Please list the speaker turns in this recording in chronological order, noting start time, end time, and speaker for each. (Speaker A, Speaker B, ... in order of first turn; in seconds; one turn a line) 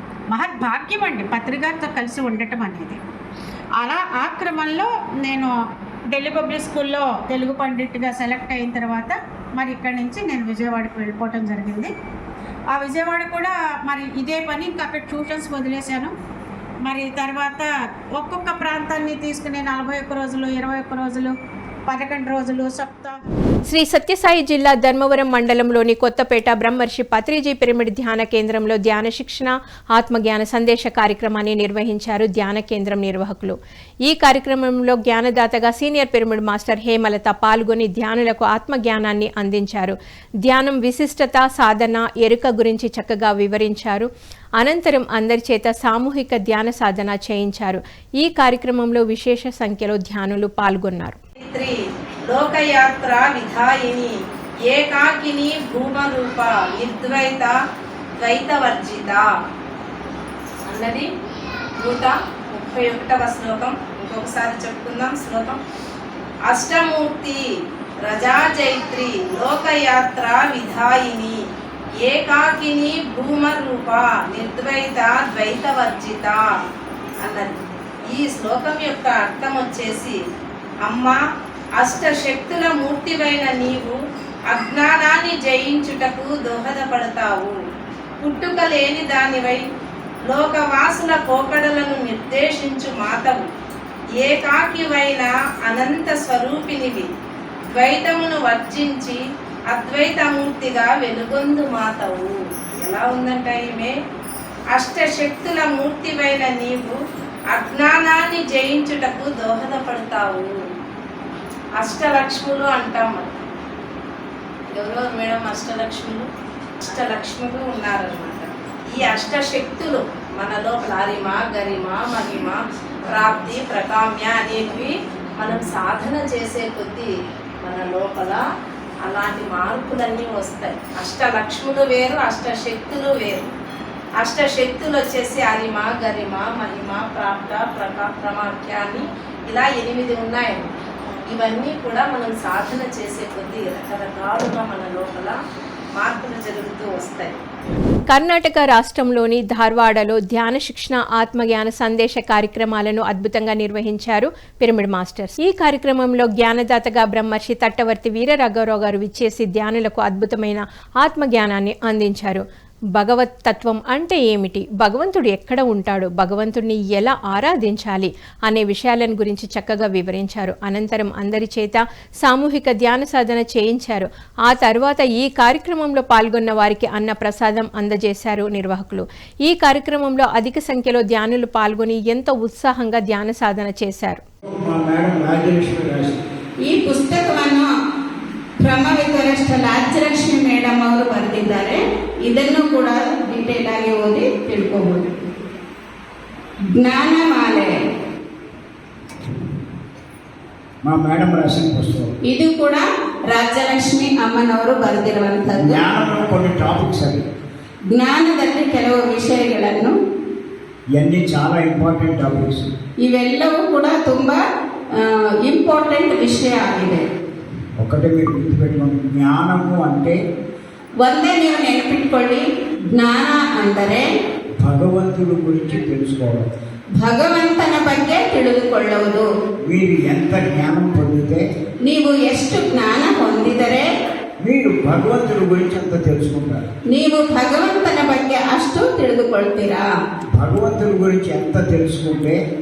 Speaker A: 0.3-3.0
Speaker A: 3.8-5.5
Speaker A: 6.1-11.9
Speaker A: 12.7-16.1
Speaker A: 16.8-21.3
Speaker A: 21.9-23.2
Speaker B: 23.7-51.2
Speaker C: 51.4-57.5
Speaker C: 58.2-59.3
Speaker C: 60.7-61.1
Speaker C: 61.8-65.6
Speaker C: 66.5-67.4
Speaker C: 68.0-71.4
Speaker C: 72.0-76.4
Speaker C: 77.2-80.2
Speaker C: 80.8-81.2
Speaker C: 81.8-84.0
Speaker C: 84.5-87.5
Speaker C: 88.2-89.6
Speaker C: 90.2-93.5
Speaker C: 94.2-97.1
Speaker C: 97.6-99.2
Speaker C: 99.7-103.9
Speaker C: 104.7-107.0
Speaker C: 107.5-110.5
Speaker C: 111.8-113.5
Speaker C: 114.7-116.2
Speaker C: 116.8-127.1
Speaker C: 127.6-128.4
Speaker C: 129.0-133.5
Speaker C: 134.2-140.7
Speaker C: 141.2-145.4
Speaker C: 145.9-147.4
Speaker B: 148.1-162.4
Speaker B: 162.9-184.2
Speaker D: 184.5-186.2
Speaker E: 186.7-187.7
Speaker E: 188.6-195.1
Speaker E: 196.8-197.7
Speaker D: 200.8-202.1
Speaker E: 202.3-205.8
Speaker D: 205.6-207.2
Speaker E: 207.9-209.9
Speaker D: 211.0-212.7
Speaker E: 213.1-214.4
Speaker E: 215.0-217.0
Speaker D: 217.8-220.2
Speaker E: 221.0-222.4
Speaker E: 222.9-224.1
Speaker D: 224.6-226.4
Speaker E: 227.0-229.2
Speaker D: 229.6-231.4
Speaker E: 231.9-233.8
Speaker D: 234.4-236.7
Speaker E: 236.9-239.8
Speaker D: 240.4-242.4